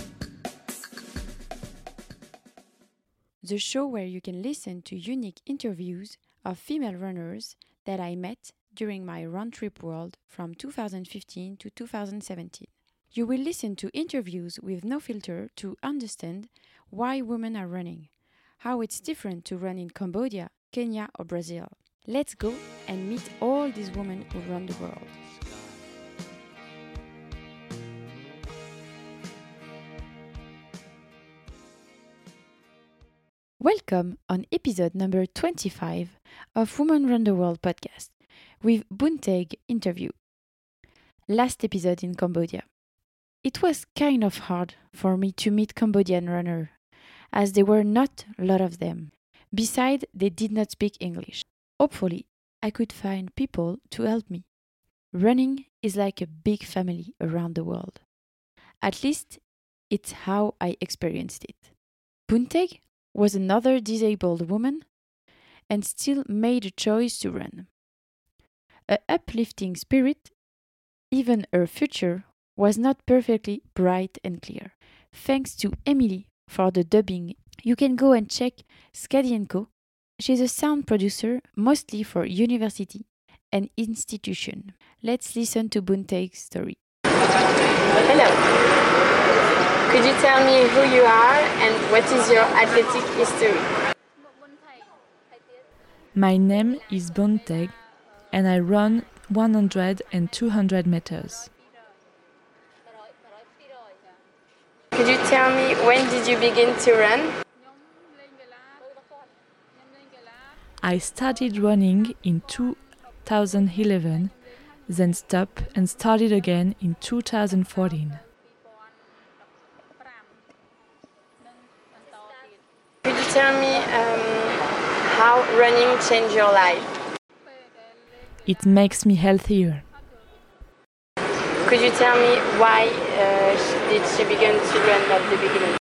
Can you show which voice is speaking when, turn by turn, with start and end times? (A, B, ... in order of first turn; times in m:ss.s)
0:03.4-0:25.2 A
0:33.6-0:40.3 A
0:41.2-0:42.8 A
0:43.3-0:58.1 A
0:58.8-1:05.0 A
1:05.6-1:07.8 A
1:08.8-1:10.4 A
1:11.1-1:26.8 A
1:28.0-1:28.4 B
1:29.9-1:33.7 B
1:36.1-1:37.8 C
1:38.3-1:41.5 C
1:44.9-1:47.3 B
1:50.8-1:58.2 C
2:03.0-2:06.9 B
2:08.4-2:09.8 C
2:11.6-2:15.8 B